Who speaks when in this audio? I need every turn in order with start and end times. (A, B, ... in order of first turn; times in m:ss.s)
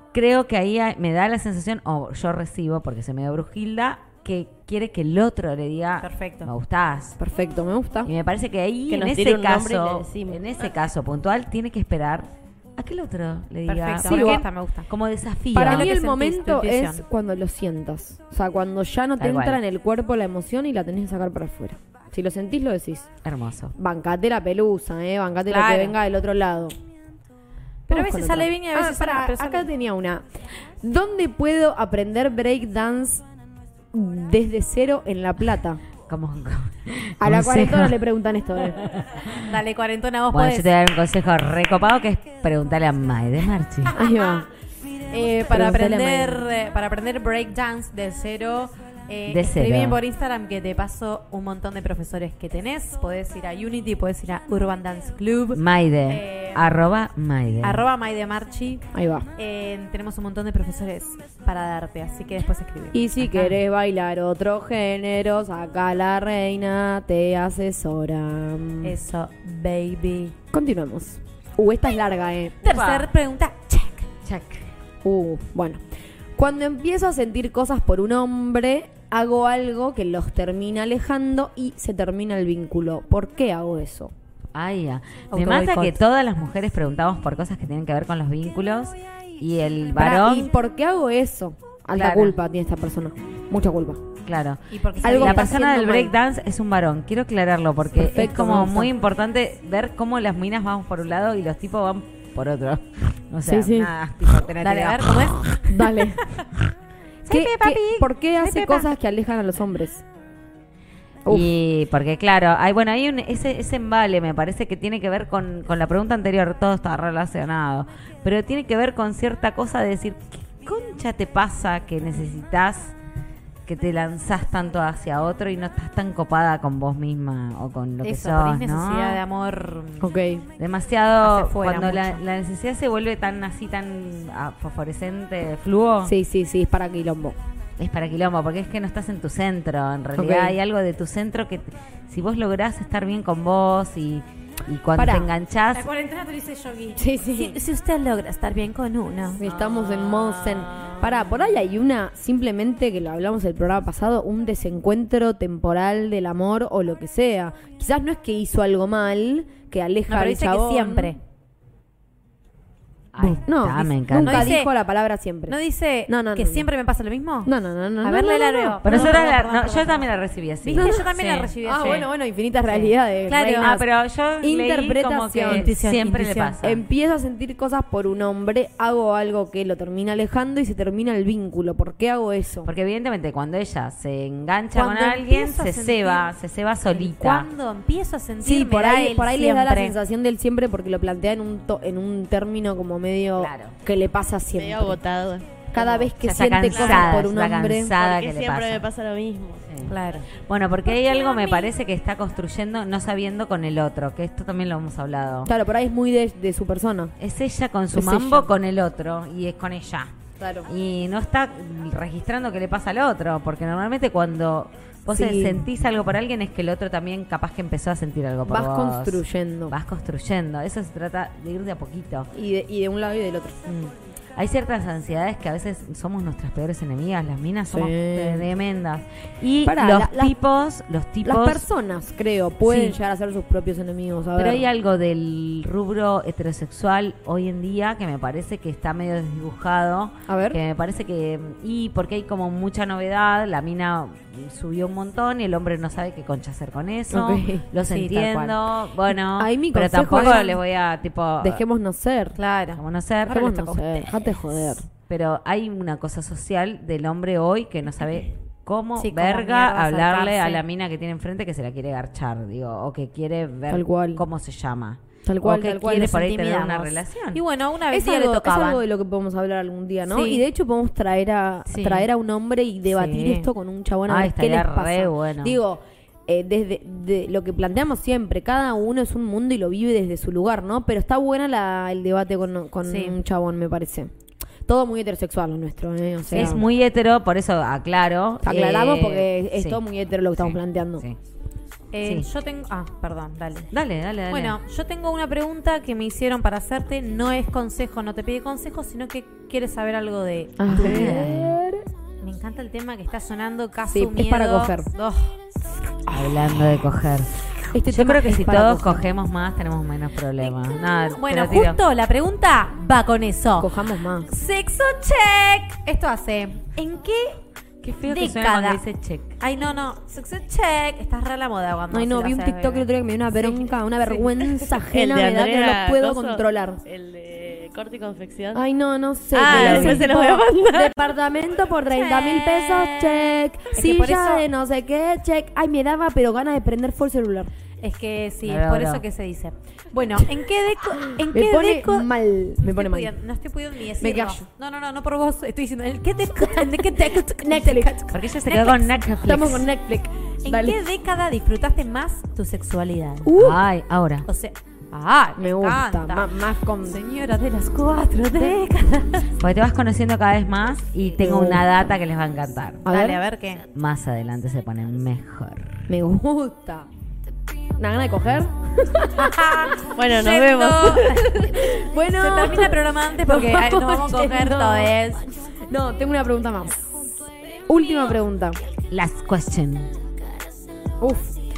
0:00.1-0:07.2 A
0:06.0-0:06.5 B
0:07.2-0:08.1 C
0:08.1-0:15.9 A
0:08.9-0:10.4 D
0:13.7-0:14.9 B
0:14.0-0:14.4 C
0:15.5-0:23.1 C
0:15.6-0:17.0 B
0:19.2-0:19.6 A
0:23.2-0:23.7 A
0:23.8-0:26.8 C
0:25.5-0:26.0 B
0:27.9-0:29.7 B
0:27.9-0:30.2 C
0:30.8-0:33.2 C
0:33.9-0:35.8 C
0:36.1-0:38.0 A
0:37.2-0:38.8 C
0:38.6-0:39.4 A
0:39.4-0:40.7 B
0:40.3-0:44.0 A
0:44.0-0:44.5 C
0:45.1-0:56.7 B
0:45.4-0:46.5 C
0:49.3-0:50.0 A
0:55.5-0:57.8 A
0:57.6-1:03.6 B
0:58.9-0:59.3 C
1:02.9-1:09.0 C
1:08.8-1:10.3 B
1:10.5-1:12.6 C
1:12.6-1:14.1 B
1:12.6-1:13.1 A
1:14.2-1:14.7 A
1:15.0-1:15.8 C
1:16.4-1:24.1 C
1:24.5-1:30.5 A
1:25.3-1:26.0 B
1:30.0-1:34.0 C
1:32.0-1:32.4 A
1:34.2-1:45.4 A
1:34.7-1:35.6 B
1:35.0-1:36.2 C
1:38.0-1:38.9 C
1:43.4-1:43.9 C
1:44.6-1:46.1 B
1:45.6-1:46.2 C
1:47.2-1:48.9 B
1:47.3-1:50.0 C
1:51.2-1:51.5 C
1:51.3-2:03.0 A
2:03.7-2:09.2 A
2:08.0-2:10.1 B
2:10.0-2:10.5 C
2:10.6-2:16.1 A
2:11.2-2:12.2 B
2:16.0-2:17.4 C
2:17.8-2:25.8 A
2:20.2-2:20.6 C
2:25.0-2:25.3 C
2:25.7-2:29.4 B
2:27.0-2:27.6 C
2:29.4-2:41.1 C
2:29.4-2:30.9 A
2:40.1-2:41.2 B
2:43.1-2:44.6 A
2:43.2-2:45.6 C
2:44.1-2:44.7 B
2:45.5-2:47.5 B
2:46.1-2:46.7 C
2:47.5-2:49.2 C
2:48.0-2:50.1 B
2:48.8-2:51.5 A
2:50.6-2:52.1 B
2:50.8-2:53.9 C
2:52.7-2:53.7 B
2:53.6-2:56.7 A
2:54.4-2:55.7 C
2:55.5-2:56.8 B
2:56.6-3:02.7 C
3:02.6-3:07.5 A
3:04.7-3:06.3 B
3:06.9-3:10.0 B
3:08.4-3:15.0 C
3:13.4-3:13.8 A
3:14.5-3:15.7 D
3:15.7-3:17.9 C
3:15.9-3:18.9 A
3:16.7-3:17.2 D
3:18.0-3:19.7 D
3:19.7-3:25.5 A
3:19.9-3:20.3 B
3:25.5-3:27.1 C
3:27.2-3:30.1 A
3:27.9-3:28.5 C
3:30.4-3:30.7 C
3:30.7-3:42.3 A
3:35.1-3:35.6 C
3:38.4-3:39.8 C
3:42.3-3:43.6 C
3:43.7-3:51.7 A
3:47.7-3:48.5 C
3:49.6-3:50.3 C
3:51.2-3:54.7 C
3:52.6-3:53.0 A
3:54.4-4:11.6 A
4:00.3-4:00.6 C
4:07.1-4:07.7 C
4:07.9-4:08.5 B
4:09.4-4:10.6 C
4:10.1-4:10.5 B
4:11.4-4:12.4 C
4:12.4-4:12.8 B
4:12.7-4:13.8 A
4:13.3-4:14.9 C
4:15.1-4:27.4 A
4:19.0-4:20.6 B
4:23.7-4:24.2 C
4:25.2-4:26.2 C
4:26.0-4:28.8 B
4:27.9-4:44.1 C
4:30.1-4:30.4 B
4:31.7-4:32.1 B
4:32.9-4:33.5 B
4:34.1-4:35.6 A
4:42.8-4:43.2 B
4:44.7-4:46.6 C
4:46.3-4:49.8 A
4:48.4-4:51.0 C
4:50.4-4:51.2 A
4:51.9-4:53.7 B
4:53.7-4:54.6 A
4:54.3-5:01.3 B
5:00.6-5:01.9 C
5:00.7-5:01.6 A
5:02.2-5:05.4 B
5:03.9-5:04.9 C
5:06.1-5:11.8 A
5:07.7-5:09.0 C
5:11.1-5:13.7 B
5:13.6-5:14.3 C
5:14.3-5:17.4 B
5:17.8-5:19.3 A
5:18.0-5:18.8 B
5:19.4-5:24.4 B
5:21.9-5:26.8 C
5:24.9-5:28.6 D
5:28.5-5:37.5 C
5:29.3-5:31.0 D
5:29.4-5:30.0 B
5:33.7-5:34.4 B
5:37.8-5:42.1 B
5:38.5-5:39.0 A
5:41.0-5:43.1 C
5:42.6-5:49.1 B
5:44.0-5:44.4 C
5:46.4-5:48.1 C
5:48.1-5:49.7 A
5:49.2-5:50.8 C
5:50.4-5:53.3 B
5:53.2-5:53.6 C
5:53.4-5:54.3 A
5:54.3-5:56.3 B
5:55.4-5:57.0 C
5:56.8-5:59.3 B
5:59.4-6:02.8 A
6:01.2-6:01.7 C
6:02.8-6:03.2 C
6:02.9-6:03.6 B
6:03.8-6:05.9 A
6:05.9-6:06.9 C
6:07.8-6:09.4 C
6:09.2-6:15.3 B
6:09.8-6:11.6 D
6:11.4-6:14.9 C
6:15.7-6:16.8 C
6:17.7-6:18.6 C
6:18.9-6:19.9 A
6:21.0-6:21.3 C